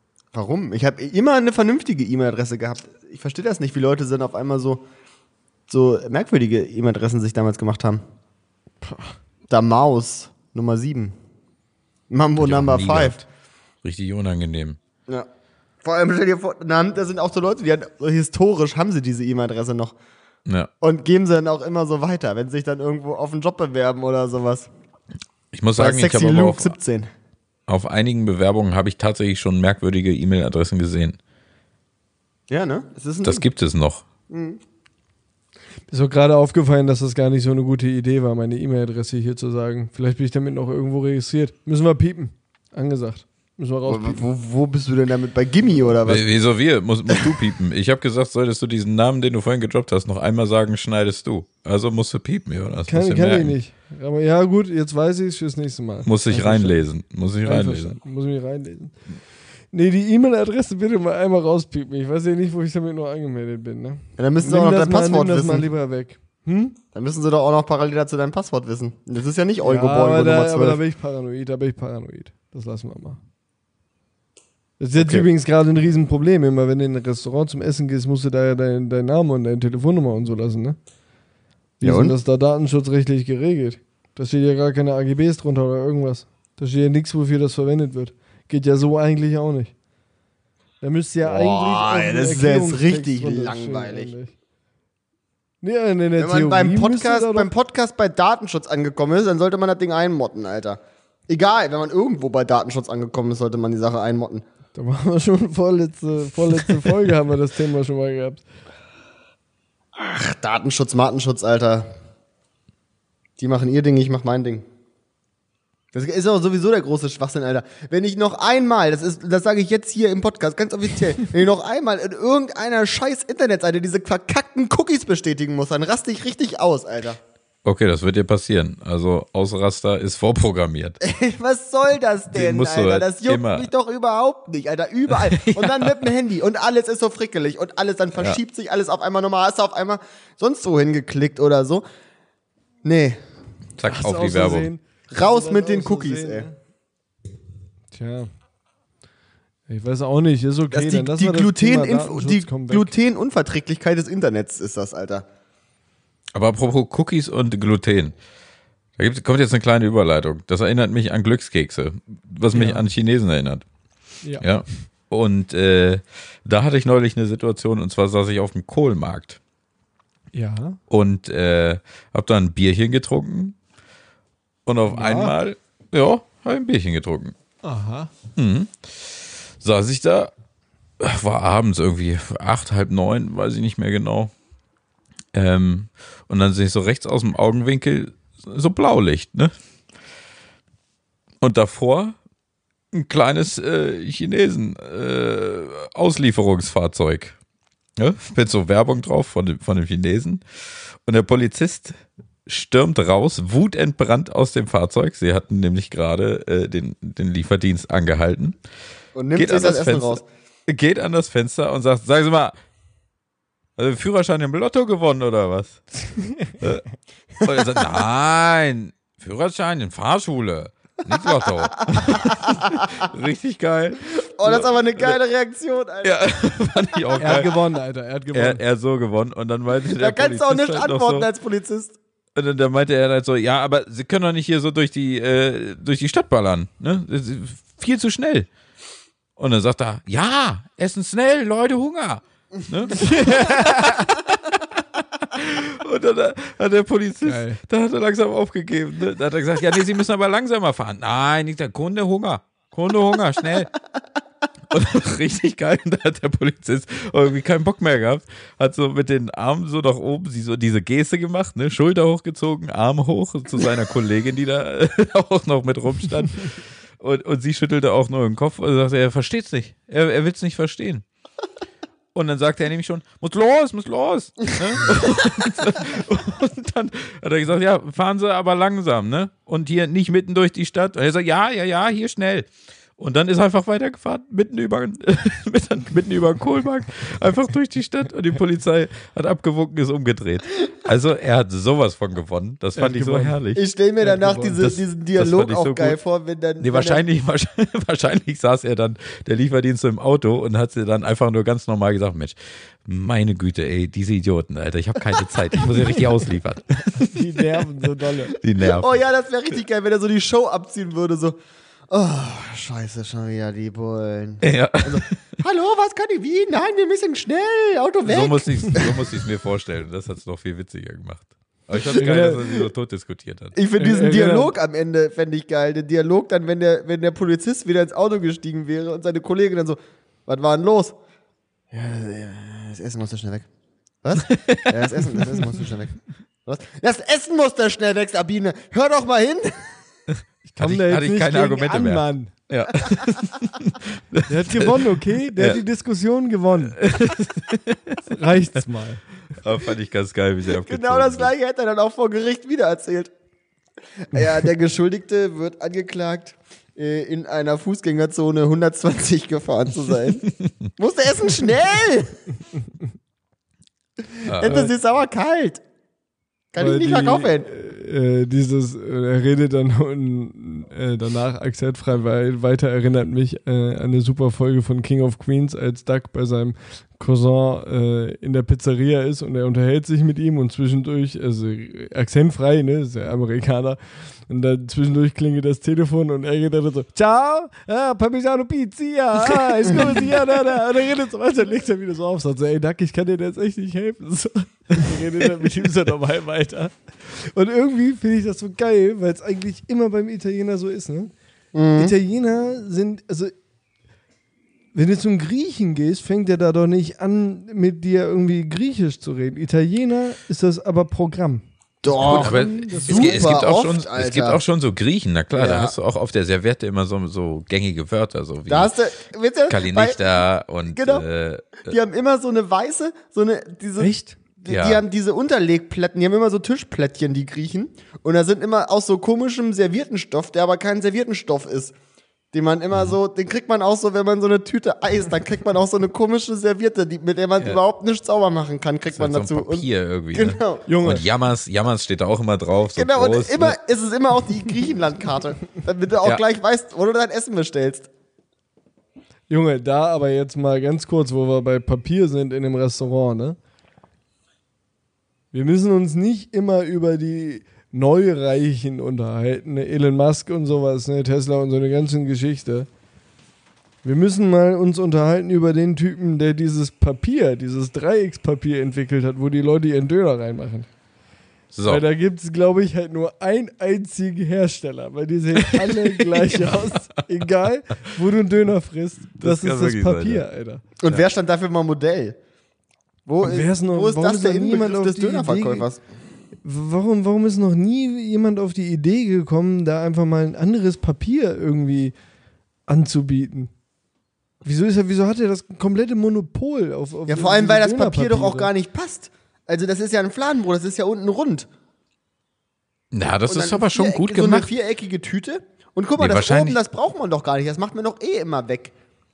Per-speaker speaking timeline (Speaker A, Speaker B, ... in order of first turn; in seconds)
Speaker A: 0.3-4.8, 5.7-8.0, 9.5-11.2, 12.1-13.2, 15.8-20.0, 20.8-24.7, 25.8-27.1, 32.5-33.5, 34.3-34.6, 43.9-46.3, 64.2-65.7, 66.9-70.8, 75.0-75.3, 81.8-82.2, 91.2-94.1, 96.2-104.4, 110.0-111.9, 113.4-114.7, 115.9-127.2, 131.0-141.8, 142.8-143.2, 145.1-146.5, 150.7-155.2, 209.2-210.2, 217.4-217.9, 221.1-223.1, 224.4-226.2, 230.0-232.0, 293.6-297.0, 308.6-311.4, 311.9-319.0, 323.6-331.0, 331.7-333.5, 334.0-339.8, 350.6-353.1, 354.0-362.2, 364.1-365.6, 366.5-367.5, 389.6-390.0, 401.5-401.9, 411.8-414.4, 415.4-415.8, 418.5-420.0, 420.7-421.1, 421.6-431.7, 432.3-440.6, 442.8-447.9, 480.8-482.2, 483.1-485.8, 497.1-501.5, 503.3-508.7
Speaker B: 8.8-9.2, 35.9-44.2, 52.9-56.8, 57.4-59.0, 59.7-66.8, 69.6-73.2, 74.8-80.8, 81.8-89.7, 90.8-94.3, 95.6-97.5, 104.8-108.4, 143.8-146.6, 147.9-148.3, 149.7-152.9, 162.5-162.8, 164.2-164.5, 170.3-170.8, 174.9-175.4, 177.6-178.1, 216.3-216.6, 227.2-228.6, 243.0-243.8, 247.2-247.6, 292.8-293.4, 294.0-294.6, 307.0-308.4, 321.8-322.4, 323.8-324.5, 340.5-342.3, 344.3-347.1, 348.1-349.1, 364.4-364.7, 366.6-401.1, 401.8-403.3, 404.7-413.4, 423.8-424.2, 440.7-441.1, 449.3-453.4, 455.3-462.7, 463.8-470.7, 471.7-480.6, 483.2-485.7, 486.4-491.9, 492.7-493.5, 494.4-498.5
Speaker C: 12.4-13.2, 13.8-14.8, 25.5-26.7, 27.7-31.2, 33.2-34.0, 46.1-53.5, 56.0-58.0, 127.7-131.0, 132.3-133.7, 135.1-136.1, 143.8-144.7, 156.3-158.1, 159.0-163.6, 164.4-169.4, 170.9-173.6, 174.7-177.3, 178.4-180.3, 181.0-184.3, 185.3-189.5, 191.4-192.2, 192.9-197.4, 198.0-201.9, 202.5-208.6, 209.3-212.5, 213.8-216.0, 216.6-216.8, 217.4-225.2, 226.0-227.6, 228.3-231.3, 232.3-238.5, 239.4-253.7, 254.7-271.0, 272.1-293.6, 294.5-296.0, 296.6-307.2, 308.4-308.9, 314.4-315.2, 318.1-323.6, 334.2-335.2, 340.6-345.6, 346.8-348.0, 349.3-351.3, 364.3-364.7, 411.9-418.7, 419.5-421.7, 424.5-424.8, 438.9-443.6, 471.5-471.8, 475.6-476.6, 479.2-480.2, 502.9-504.5, 506.0-506.6